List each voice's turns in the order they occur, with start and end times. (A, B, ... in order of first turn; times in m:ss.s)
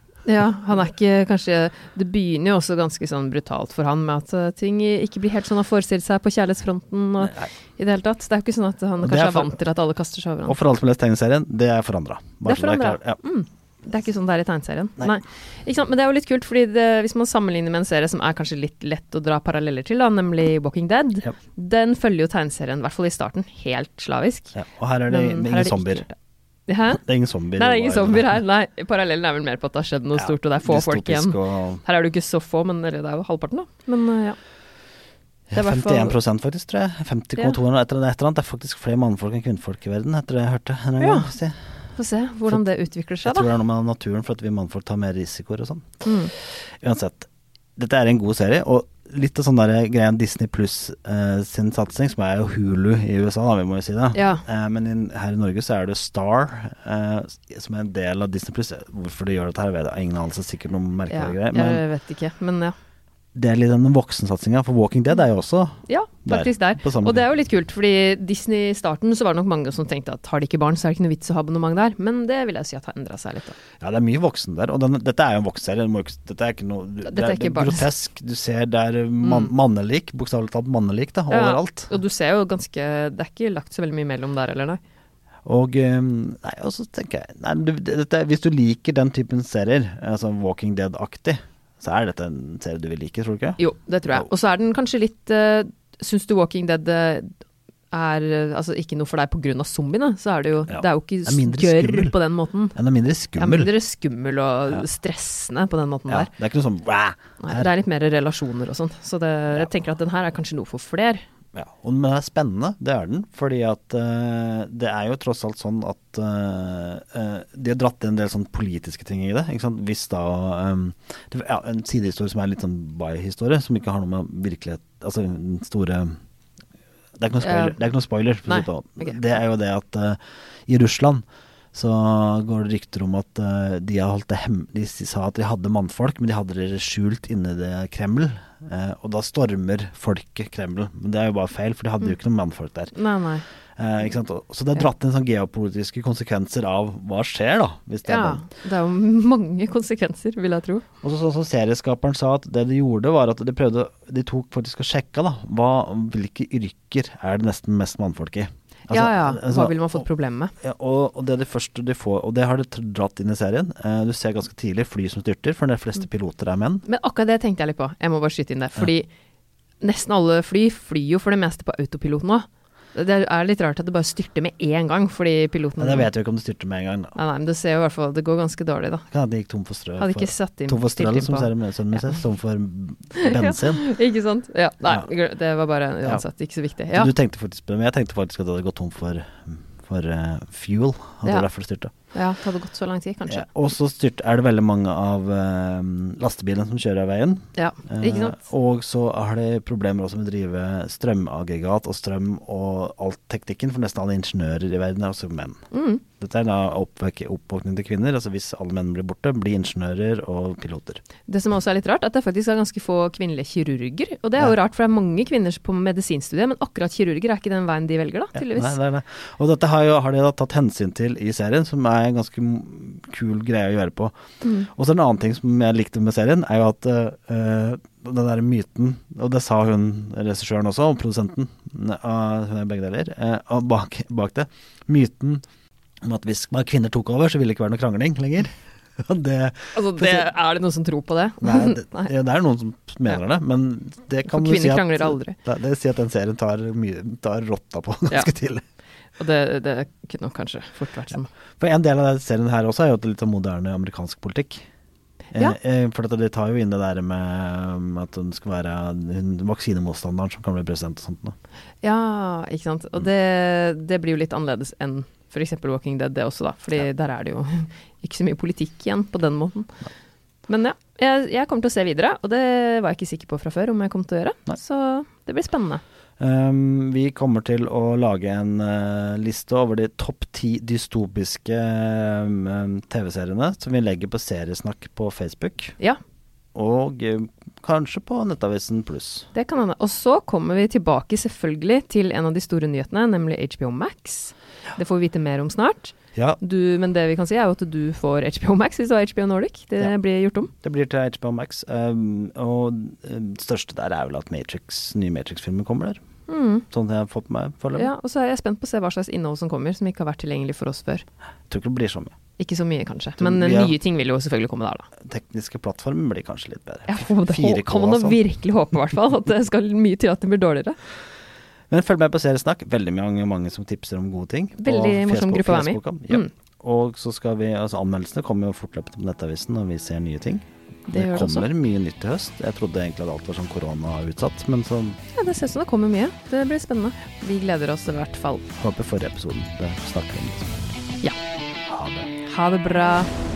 0:00.3-0:10.6 A
0:07.2-0:07.5 B
0:09.0-0:09.6 B
0:10.5-0:13.2 B
0:12.4-0:26.1 A
0:24.5-0:26.1 B
0:26.7-0:27.0 A
0:27.0-0:28.4 B
0:27.6-0:34.4 A
0:30.1-0:31.8 B
0:35.5-0:41.6 B
0:35.5-0:36.2 A
0:41.0-0:41.3 A
0:42.0-0:43.5 A
0:43.2-0:46.0 B
0:46.0-0:46.3 A
0:46.8-1:01.8 B
0:54.1-0:54.4 A
1:01.1-1:02.8 A
1:03.4-1:07.3 B
1:05.9-1:13.6 A
1:13.8-1:21.9 B
1:17.0-1:17.8 A
1:19.2-1:19.5 A
1:21.3-1:24.8 A
1:25.4-1:33.6 B
1:33.6-1:37.3 A
1:37.9-1:42.8 A
1:40.7-1:42.2 B
1:42.8-1:43.7 B
1:43.4-1:46.3 A
1:46.1-1:47.7 B
1:47.4-1:51.2 A
1:51.6-2:06.2 B
2:07.2-2:22.9 B
2:07.4-2:07.8 A
2:08.5-2:09.2 A
2:22.9-2:23.5 A
2:23.8-2:28.4 B
2:28.0-2:30.9 A
2:31.0-2:40.1 B
2:38.9-2:40.5 A
2:40.6-2:46.8 B
2:46.8-2:49.1 A
2:49.8-2:56.1 A
2:55.8-2:57.2 B
2:57.2-2:59.1 A
2:59.1-3:03.9 B
3:00.0-3:02.2 A
3:03.2-3:07.1 A
3:04.8-3:05.1 B
3:06.9-3:11.9 B
3:12.1-3:13.5 A
3:13.3-3:25.6 B
3:17.6-3:18.4 A
3:25.7-3:26.0 A
3:26.2-3:31.0 B
3:31.3-3:38.8 A
3:38.4-3:55.4 B
3:56.0-4:00.3 B
3:59.8-4:02.1 A
4:01.4-4:08.6 B
4:04.2-4:05.4 A
4:09.2-4:11.3 A
4:11.6-4:14.6 B
4:15.3-4:21.4 B
4:21.8-4:29.7 A
4:30.5-4:35.8 A
4:36.2-4:45.8 B
4:46.6-4:49.3 B
4:49.3-5:00.5 A
4:56.1-4:56.4 B
5:00.6-5:06.0 B
5:06.3-5:06.7 A
5:06.7-5:07.9 B
5:07.8-5:11.0 A
5:11.5-5:12.2 B
5:12.4-5:14.9 A
5:13.2-5:13.8 B
5:15.0-5:18.2 B
5:16.9-5:20.8 A
5:21.7-5:35.0 B
5:24.6-5:26.3 A
5:30.9-5:31.5 A
5:35.1-5:38.5 A
5:38.6-5:40.6 B
5:41.7-5:42.1 B
5:42.2-5:43.1 A